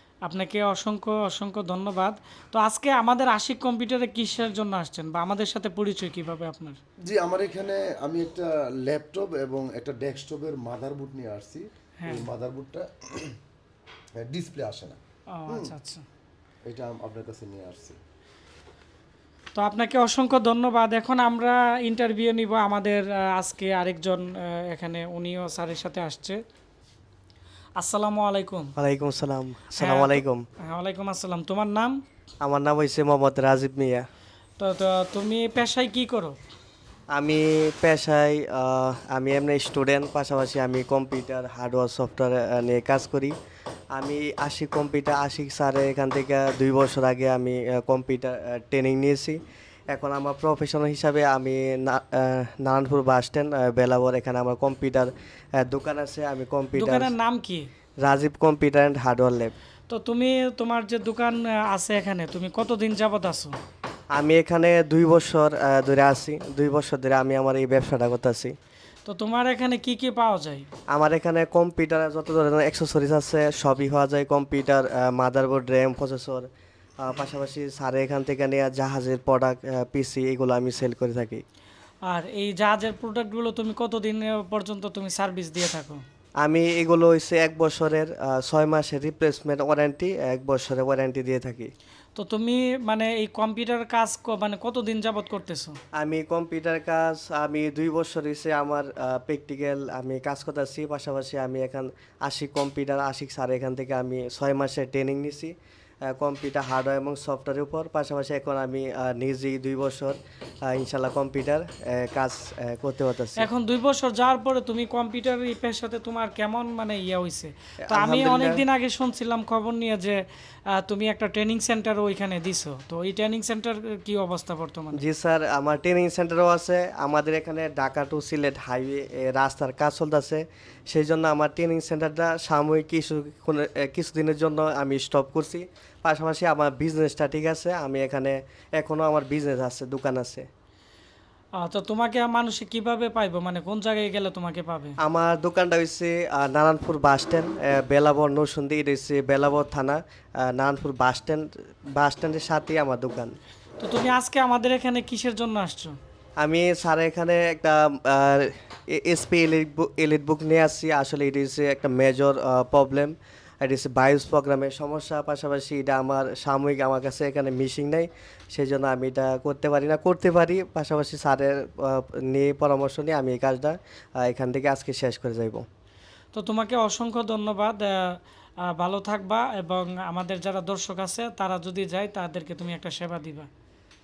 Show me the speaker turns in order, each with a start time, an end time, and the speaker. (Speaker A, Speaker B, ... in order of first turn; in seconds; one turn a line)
Speaker A: 0.2-6.8
Speaker B: 7.1-13.3
Speaker A: 12.0-12.3
Speaker B: 14.2-15.7
Speaker A: 15.3-16.0
Speaker B: 16.6-18.0
Speaker A: 19.6-26.4
Speaker A: 27.8-28.7
Speaker C: 28.8-30.4
Speaker A: 29.8-32.0
Speaker C: 32.4-34.0
Speaker A: 34.6-36.4
Speaker C: 37.1-43.3
Speaker C: 43.9-49.4
Speaker C: 49.9-57.1
Speaker A: 56.7-57.7
Speaker C: 58.0-59.5
Speaker A: 59.9-63.5
Speaker C: 64.1-68.5
Speaker A: 69.0-70.7
Speaker C: 70.9-76.5
Speaker C: 77.0-81.4
Speaker A: 82.1-86.0
Speaker C: 86.4-91.7
Speaker A: 92.2-95.8
Speaker C: 96.0-105.5
Speaker C: 106.1-113.5
Speaker A: 113.4-125.0
Speaker C: 117.9-118.6
Speaker C: 125.0-140.4
Speaker A: 141.6-145.0
Speaker C: 145.0-153.4
Speaker A: 153.8-155.9
Speaker C: 156.4-175.6
Speaker A: 176.3-183.5